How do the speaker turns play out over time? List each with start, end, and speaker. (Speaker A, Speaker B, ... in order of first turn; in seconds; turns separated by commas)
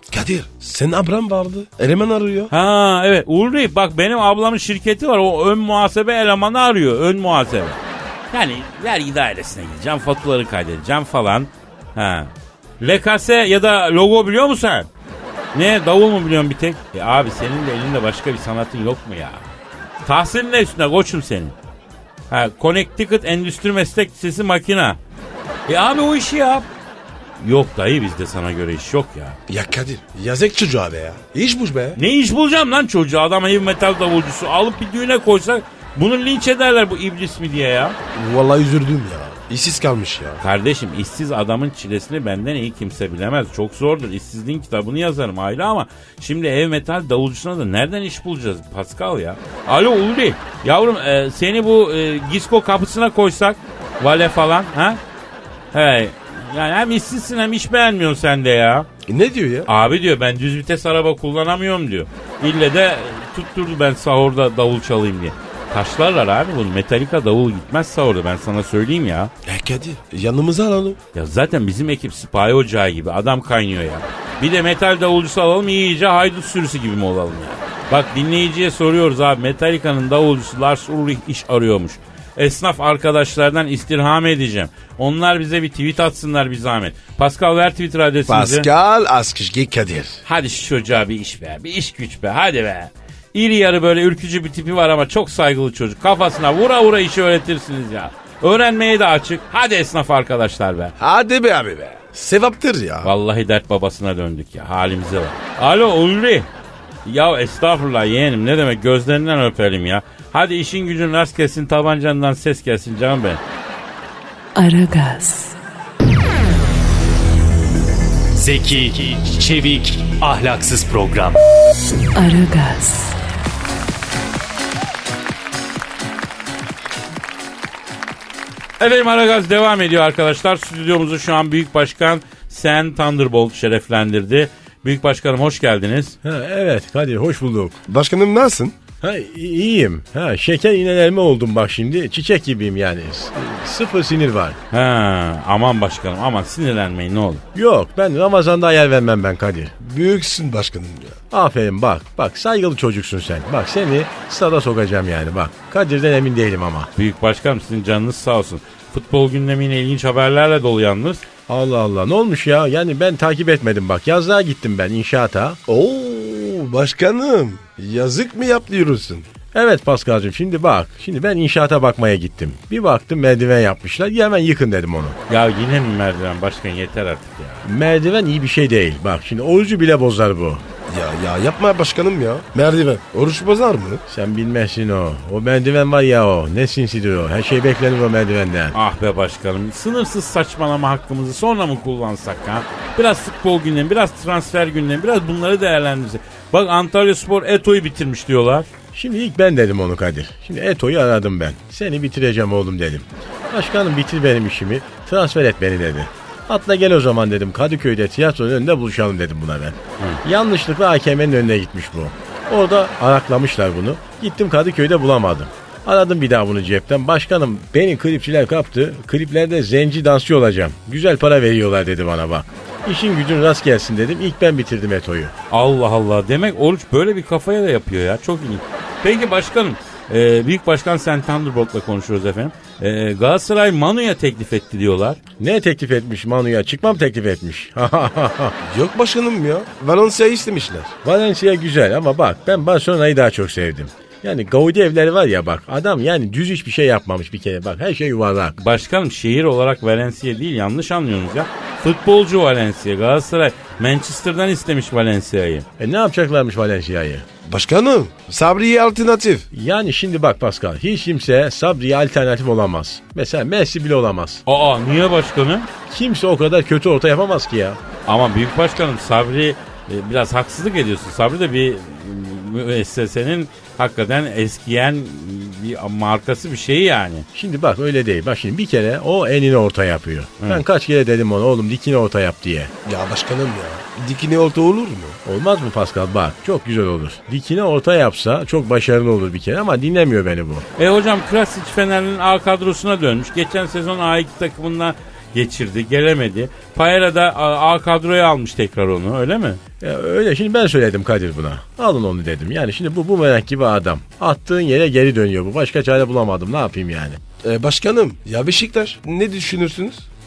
Speaker A: 0.1-2.5, Speaker B: 2.5-7.8, Speaker B: 8.3-14.9, Speaker B: 15.5-19.4, Speaker B: 20.0-21.6, Speaker B: 22.3-25.0, Speaker B: 25.7-26.7, Speaker B: 27.4-29.4, Speaker A: 29.5-32.0, Speaker B: 31.9-38.0, Speaker A: 38.1-40.4, Speaker B: 40.4-55.0, Speaker B: 55.7-58.9, Speaker A: 59.1-59.7, Speaker B: 59.7-69.3, Speaker A: 69.5-71.0, Speaker B: 71.1-88.7, Speaker A: 88.3-90.2, Speaker B: 90.2-100.9, Speaker A: 101.0-103.1, Speaker B: 103.0-106.5, Speaker B: 107.0-113.4, Speaker C: 114.5-115.6, Speaker D: 118.3-121.4, Speaker C: 122.1-123.1, Speaker B: 128.8-136.2, Speaker E: 136.2-137.8, Speaker A: 137.9-138.7, Speaker E: 139.0-144.6, Speaker B: 144.7-147.4, Speaker E: 147.6-149.7, Speaker A: 149.8-151.2, Speaker E: 151.3-156.9, Speaker B: 157.0-161.2, Speaker E: 161.5-165.6, Speaker A: 165.7-169.3, Speaker E: 169.5-175.2, Speaker B: 175.3-177.7, Speaker E: 177.6-180.6, Speaker A: 180.9-184.0, Speaker E: 184.1-188.8, Speaker B: 188.7-198.7, Speaker E: 198.9-225.3, Speaker B: 225.5-235.2, Speaker E: 235.4-238.6, Speaker A: 238.6-240.9, Speaker E: 241.0-248.6, Speaker B: 248.6-255.7, Speaker E: 255.8-257.2, Speaker A: 257.4-259.5, Speaker E: 259.5-264.4, Speaker B: 264.5-265.7, Speaker E: 265.9-267.8, Speaker B: 268.1-277.3, Speaker E: 277.3-282.7, Speaker A: 282.9-285.2, Speaker E: 285.2-290.6, Speaker B: 290.8-299.6, Speaker E: 299.8-307.2, Speaker A: 307.4-310.0